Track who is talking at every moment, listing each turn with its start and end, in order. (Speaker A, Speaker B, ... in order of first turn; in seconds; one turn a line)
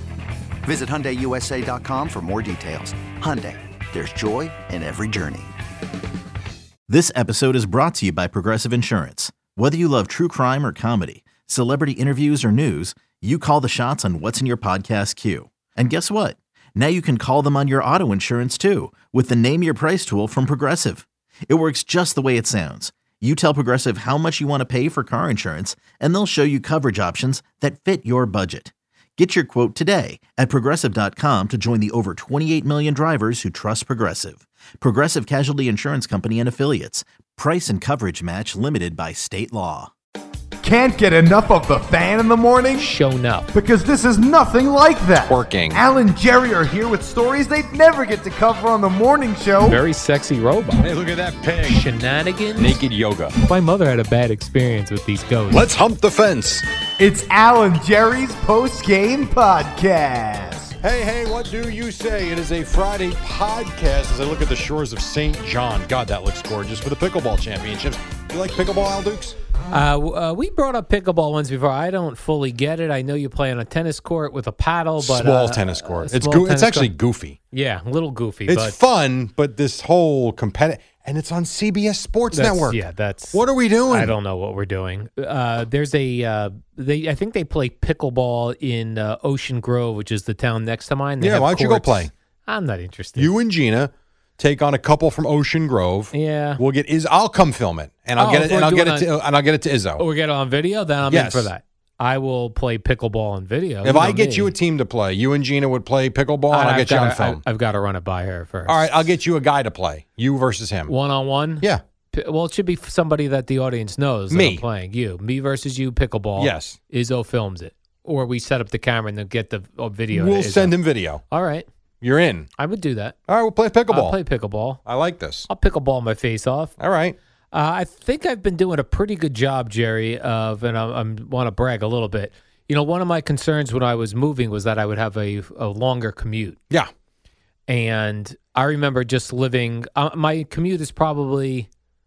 Speaker A: 0.6-5.5
Speaker B: 6.9-39.9
Speaker C: 40.6-42.9
Speaker D: 42.8-43.5
Speaker C: 43.5-49.8
Speaker E: 45.2-45.8
Speaker D: 49.6-50.9
Speaker E: 50.8-51.8
Speaker D: 51.6-52.8
Speaker E: 52.6-53.3
Speaker D: 53.4-55.7
Speaker E: 55.5-56.6
Speaker C: 57.0-60.7
Speaker E: 60.8-69.4
Speaker D: 69.7-76.9
Speaker E: 75.0-77.4
Speaker D: 77.5-78.8
Speaker E: 78.5-82.8
Speaker D: 82.3-93.3
Speaker E: 83.3-84.1
Speaker E: 91.2-92.1
Speaker E: 93.2-100.0
Speaker D: 96.1-96.6
Speaker D: 98.2-99.1
Speaker D: 100.0-104.5
Speaker E: 101.1-101.5
Speaker E: 103.8-107.4
Speaker D: 106.5-109.0
Speaker E: 108.7-110.9
Speaker D: 110.9-120.8
Speaker E: 114.3-114.6
Speaker E: 116.4-116.8
Speaker E: 120.1-121.2
Speaker D: 121.3-121.7
Speaker E: 122.0-122.5
Speaker D: 122.6-123.2
Speaker E: 123.3-124.2
Speaker D: 123.9-124.8
Speaker E: 124.8-125.5
Speaker D: 125.5-126.7
Speaker E: 126.8-127.2
Speaker D: 127.5-136.6
Speaker D: 137.7-141.7